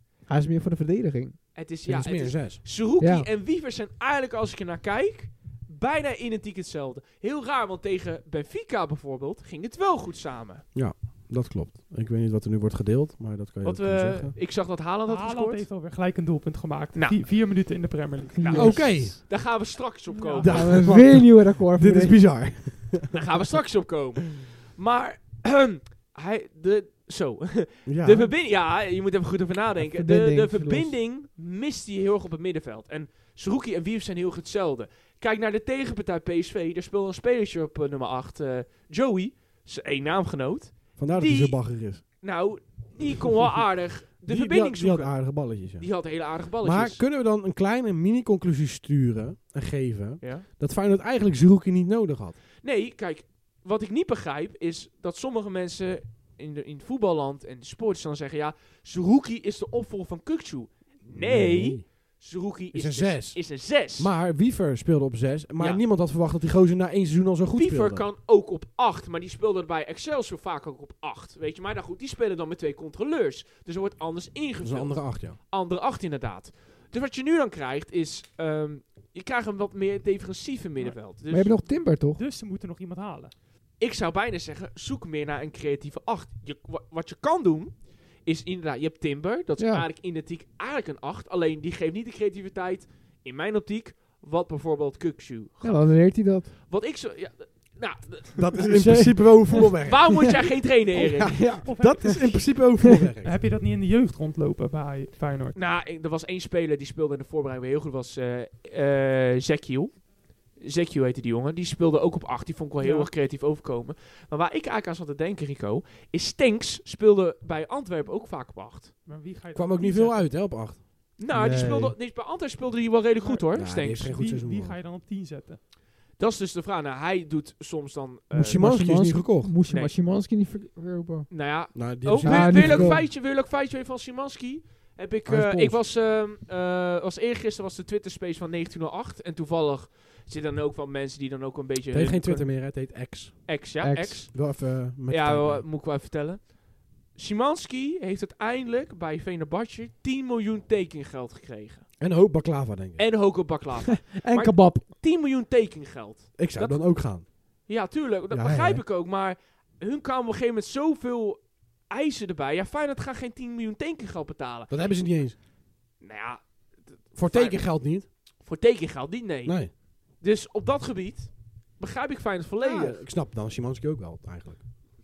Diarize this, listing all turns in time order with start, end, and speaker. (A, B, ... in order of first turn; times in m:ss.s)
0:00.3-0:01.4 A
0:01.5-0:10.6 B
0:01.8-0:02.6 C
0:03.0-0:03.3 A
0:10.7-0:14.4 C
0:13.6-0:15.7 B
0:15.1-0:18.8 D
0:16.9-0:17.3 B
0:18.4-0:19.1 A
0:18.4-0:20.9 B
0:18.5-0:19.3 C
0:20.1-0:20.8 D
0:20.4-0:23.2 C
0:20.5-0:22.3 A
0:23.1-0:47.0 B
0:27.8-0:28.3 C
0:29.8-0:31.0 A
0:41.0-0:42.0 C
0:43.5-0:52.4 C
0:50.2-0:50.4 B
0:52.6-1:04.1 B
1:01.0-1:01.9 C
1:02.7-1:08.0 C
1:05.6-1:05.8 B
1:07.5-1:21.6 B
1:14.6-1:15.4 C
1:21.3-1:22.2 A
1:22.1-1:23.3 D
1:23.8-1:38.7 B
1:29.6-1:29.9 A
1:35.6-1:36.5 A
1:38.4-1:43.4 C
1:38.6-1:39.8 A
1:39.8-1:41.5 B
1:41.2-1:42.4 A
1:41.6-1:42.6 D
1:43.2-1:45.6 D
1:45.5-1:58.9 B
1:52.8-1:53.1 D
1:59.0-2:00.5 D
1:59.5-2:01.1 C
2:01.2-2:04.2 B
2:01.3-2:01.9 A
2:03.2-2:05.6 D
2:03.5-2:04.8 C
2:06.2-2:08.8 B
2:08.3-2:09.5 C
2:08.4-2:13.0 A
2:09.7-2:09.9 B
2:11.3-2:22.8 B
2:11.7-2:13.0 C
2:15.2-2:15.8 C
2:21.9-2:23.6 C
2:23.4-2:26.5 B
2:23.8-2:24.3 A
2:24.3-2:25.6 C
2:27.1-2:31.9 B
2:32.0-2:33.1 C
2:33.0-2:44.8 B
2:34.1-2:34.8 A
2:36.4-2:37.3 C
2:38.3-2:38.8 C
2:44.7-2:45.4 C
2:46.0-2:47.8 B
2:47.1-2:48.0 C
2:48.4-2:53.0 B
2:49.4-2:49.7 C
2:52.6-2:54.6 C